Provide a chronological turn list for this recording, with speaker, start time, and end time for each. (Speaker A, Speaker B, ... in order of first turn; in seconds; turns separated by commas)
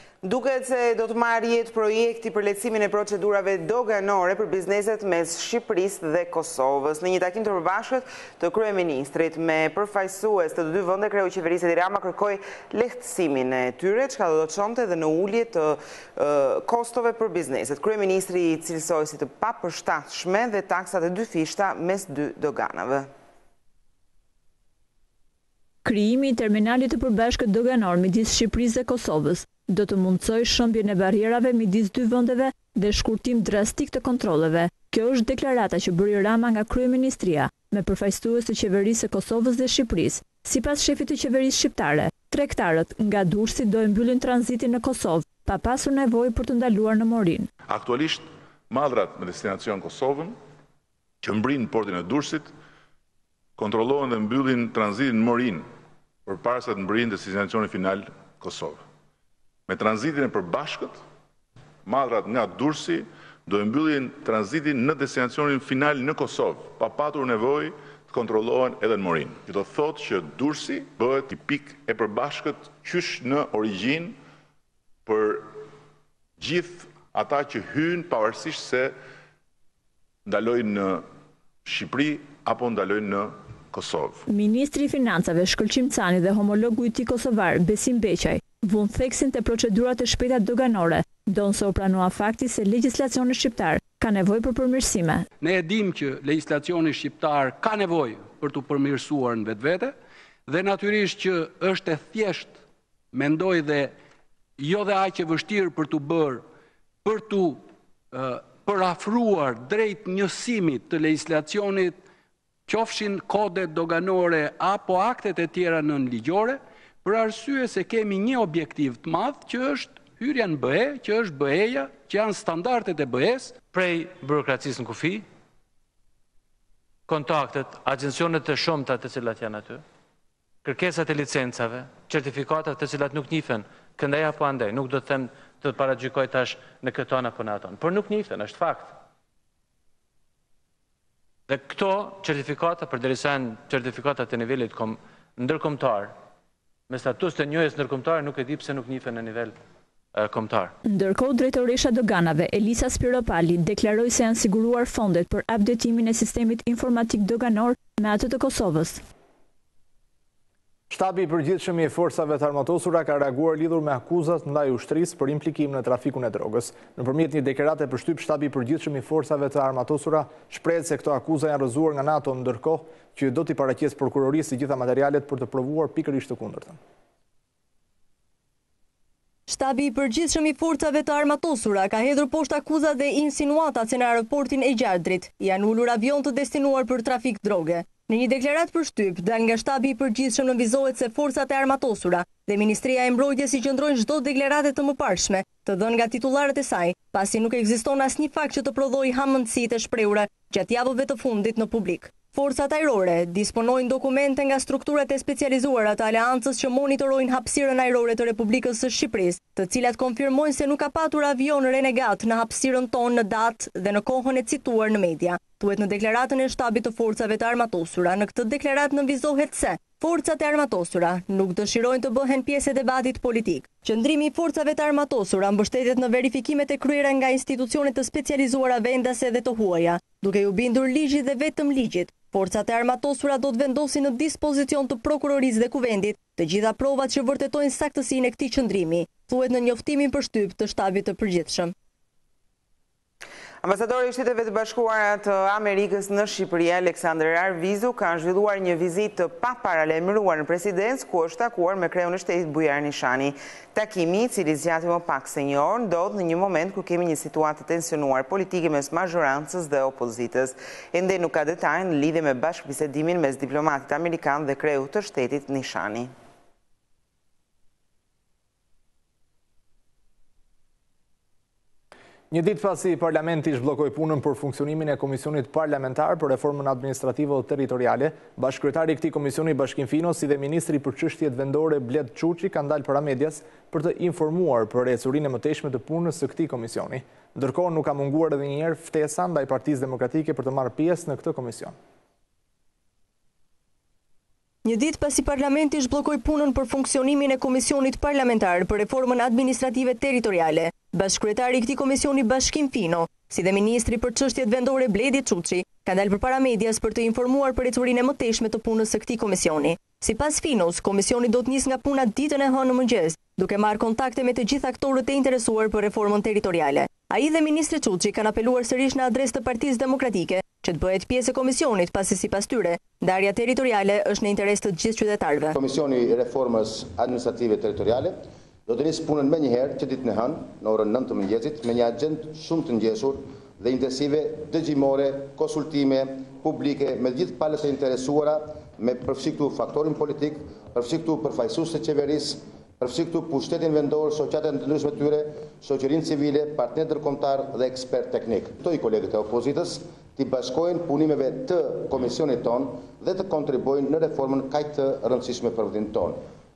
Speaker A: 0.2-23.1, Speaker B: 25.8-47.5, Speaker C: 47.7-50.4, Speaker C: 51.2-52.5, Speaker C: 53.6-55.7, Speaker C: 56.3-58.8, Speaker C: 59.7-61.0, Speaker C: 61.9-74.2, Speaker C: 75.1-75.5, Speaker C: 76.4-79.0, Speaker C: 80.3-81.0, Speaker C: 81.7-84.2, Speaker B: 84.3-95.3, Speaker D: 95.4-100.0, Speaker D: 100.5-102.6, Speaker D: 103.1-103.9, Speaker D: 104.6-106.5, Speaker D: 107.0-112.0, Speaker D: 112.7-123.6, Speaker E: 123.7-125.2, Speaker E: 127.1-129.8, Speaker E: 130.6-138.9, Speaker E: 141.5-146.1, Speaker E: 146.9-149.6, Speaker E: 150.1-150.7, Speaker B: 150.8-159.0, Speaker F: 160.9-176.8, Speaker G: 179.5-241.7, Speaker A: 243.6-266.1, Speaker F: 272.3-291.8, Speaker G: 294.6-325.6, Speaker H: 325.5-356.2